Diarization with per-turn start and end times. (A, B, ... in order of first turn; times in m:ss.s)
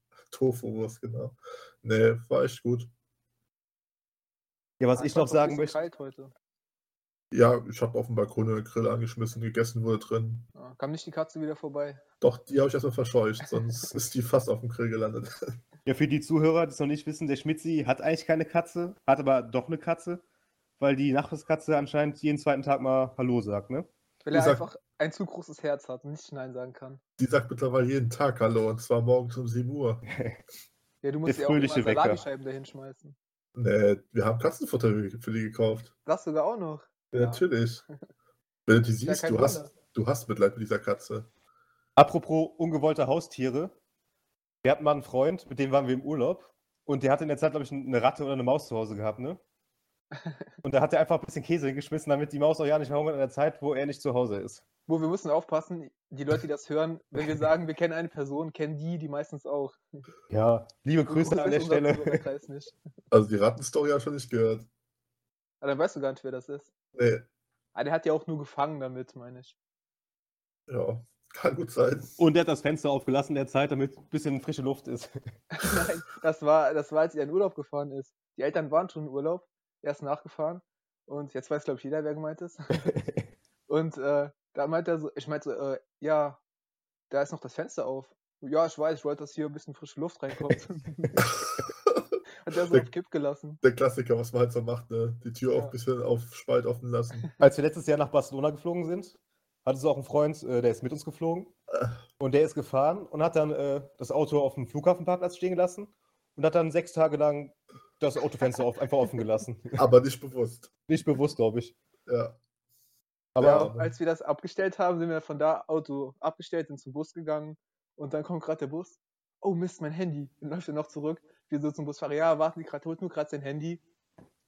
0:00.3-0:02.9 A
0:04.8-0:05.8 B
0:05.0-0:06.3 C
0:07.3-0:10.5 A
0:10.6-0:12.0 C
0:12.2-0:15.3 A
0:15.9-0:20.2 B
0:20.8-0:23.9 B
0:24.2-0:27.0 C
0:24.3-0:24.7 A
0:27.2-0:30.0 A
0:30.1-0:30.4 B
0:31.0-0:33.2 C
0:31.3-0:32.2 B
0:33.6-0:35.9 A
0:36.1-0:37.4 C
0:37.1-0:37.8 A
0:38.7-0:41.3 A
0:39.0-0:39.7 C
0:42.0-0:43.8 B
0:44.6-0:49.4 B
0:50.2-0:50.4 C
0:50.6-0:54.6 B
0:54.9-0:59.8 C
1:00.3-1:02.2 B
1:01.1-1:02.8 C
1:03.1-1:04.7 A
1:05.6-1:06.7 C
1:07.0-1:07.2 A
1:07.8-1:09.6 C
1:10.7-1:12.2 A
1:12.2-1:15.2 B
1:15.5-1:22.9 C
1:22.9-1:23.2 B
1:23.7-1:26.4 C
1:27.1-1:31.3 C
1:32.4-1:33.6 C
1:33.6-1:37.3 A
1:35.5-1:35.7 C
1:37.4-1:41.5 B
1:42.2-1:49.8 B
1:49.8-1:50.7 A
1:50.9-1:51.8 B
1:52.1-1:52.4 A
1:53.4-1:53.7 B
1:53.4-1:53.9 A
1:53.5-2:03.8 C